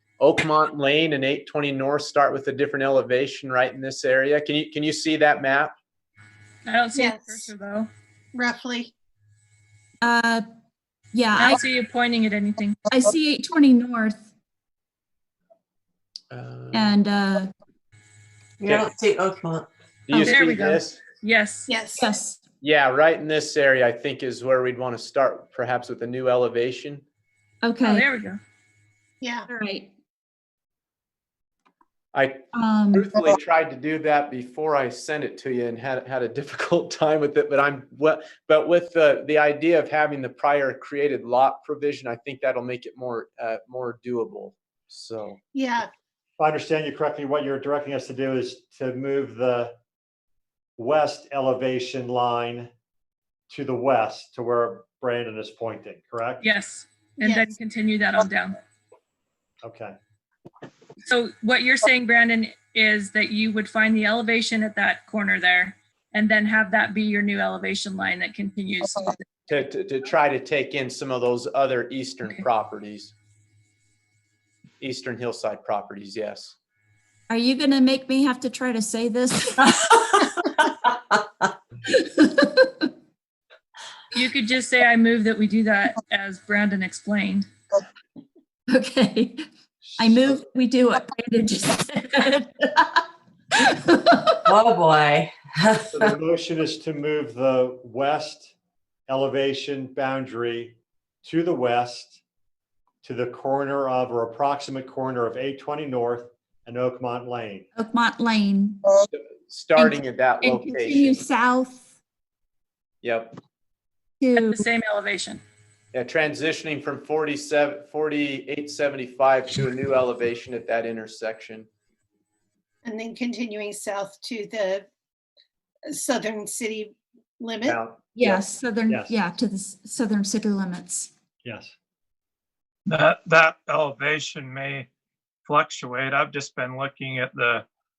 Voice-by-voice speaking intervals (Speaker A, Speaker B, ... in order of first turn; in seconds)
Speaker A: 0.2-5.7, 16.3-17.0, 18.6-18.9, 20.1-21.0, 22.6-27.0, 32.1-45.4, 69.5-73.1, 74.8-76.5, 109.0-111.2, 113.0-113.4, 115.9-121.7
Speaker B: 6.6-7.9, 11.4-12.8, 20.2-21.7, 27.8-28.4, 56.4-58.6, 61.1-69.2, 84.1-87.4, 114.3-115.4
Speaker C: 6.9-7.5, 8.3-8.9, 21.7-22.1, 29.2-29.4, 45.5-45.9, 57.2-57.5, 122.8-124.8, 125.9-127.8
Speaker D: 10.0-10.4, 11.1-11.6, 12.9-14.2, 16.7-17.5, 20.1-20.4, 22.0-22.4, 27.6-28.1, 29.5-29.9, 32.5-33.1, 77.3-79.8, 81.9-82.9, 88.7-89.4, 90.0-94.5, 107.8-108.9, 109.8-111.8, 114.2-114.6, 128.1-131.1
Speaker E: 18.6-19.7, 94.5-96.1
Speaker F: 46.4-49.8, 50.8-52.7, 53.5-56.5, 59.6-60.0, 95.9-98.5, 99.1-102.2, 103.0-107.7, 128.9-129.1, 131.4-131.7
Speaker G: 132.8-134.9, 135.4-137.7